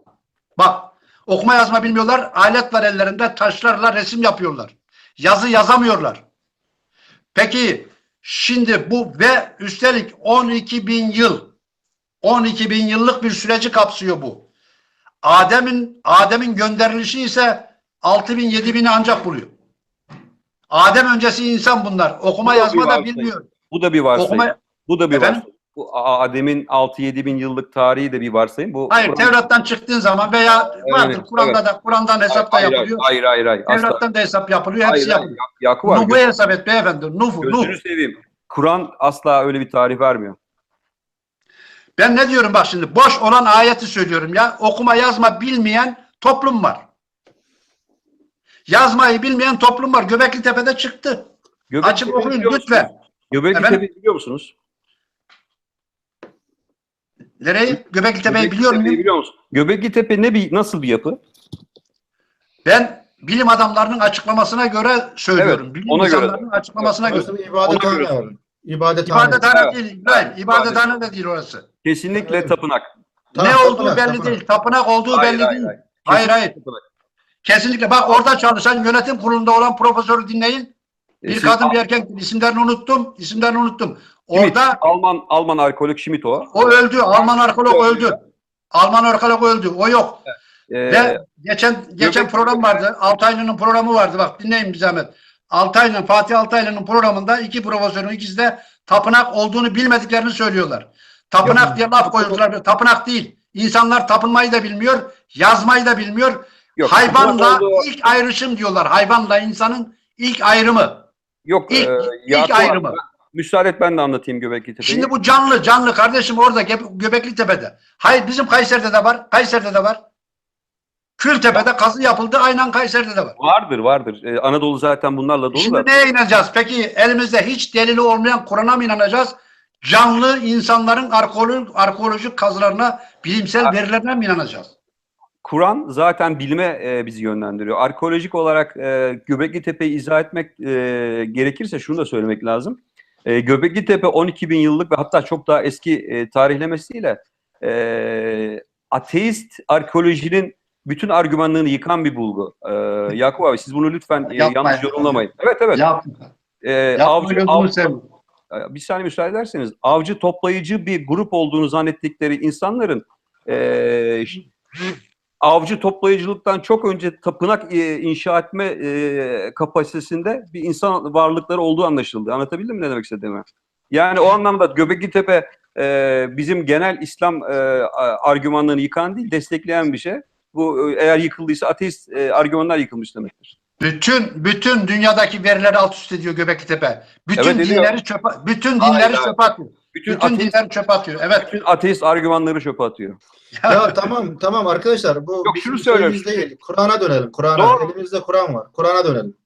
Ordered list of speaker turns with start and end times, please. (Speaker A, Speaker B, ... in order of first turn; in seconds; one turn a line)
Speaker A: 0.6-6.2
Speaker A: 7.3-11.5
Speaker A: 12.2-14.5
Speaker A: 15.2-19.5
Speaker A: 20.7-23.5
Speaker B: 22.4-29.3
Speaker A: 24.1-24.5
Speaker A: 25.1-25.4
Speaker A: 28.9-33.0
Speaker B: 30.8-31.6
Speaker B: 32.3-34.0
Speaker A: 33.7-37.8
Speaker B: 34.8-36.2
Speaker B: 37.4-40.4
Speaker A: 42.0-46.8
Speaker A: 48.7-51.2
Speaker B: 51.7-54.5
Speaker A: 51.8-52.9
Speaker A: 53.5-53.8
Speaker A: 57.4-59.0
Speaker B: 58.2-61.2
Speaker A: 62.6-67.3
Speaker B: 65.4-68.2
Speaker C: 67.1-69.5
Speaker A: 69.0-71.6
Speaker B: 69.5-70.9
Speaker B: 71.8-72.9
Speaker C: 72.2-72.5
Speaker C: 73.3-74.4
Speaker A: 73.4-76.5
Speaker B: 75.1-76.8
Speaker A: 77.4-80.7
Speaker B: 81.2-81.8
Speaker A: 81.2-84.8
Speaker B: 84.3-88.2
Speaker A: 86.5-88.2
Speaker A: 88.7-90.2
Speaker B: 90.7-91.2
Speaker A: 90.9-111.1
Speaker B: 92.0-92.8
Speaker B: 101.5-102.4
Speaker B: 106.8-107.9
Speaker B: 111.5-115.1
Speaker A: 111.7-113.0
Speaker A: 114.8-120.0
Speaker A: 121.2-123.3
Speaker B: 123.4-126.0
Speaker A: 125.5-134.7
Speaker B: 135.4-155.8
Speaker A: 154.3-155.2
Speaker A: 155.7-156.3
Speaker B: 156.6-157.9
Speaker A: 156.9-158.0
Speaker B: 158.5-164.4
Speaker B: 165.4-183.5
Speaker A: 183.8-191.5
Speaker B: 187.4-187.9
Speaker B: 188.8-189.3
Speaker B: 189.9-190.5
Speaker B: 191.3-193.2
Speaker A: 193.6-194.0
Speaker C: 193.7-199.3
Speaker B: 195.4-196.5
Speaker B: 197.6-197.9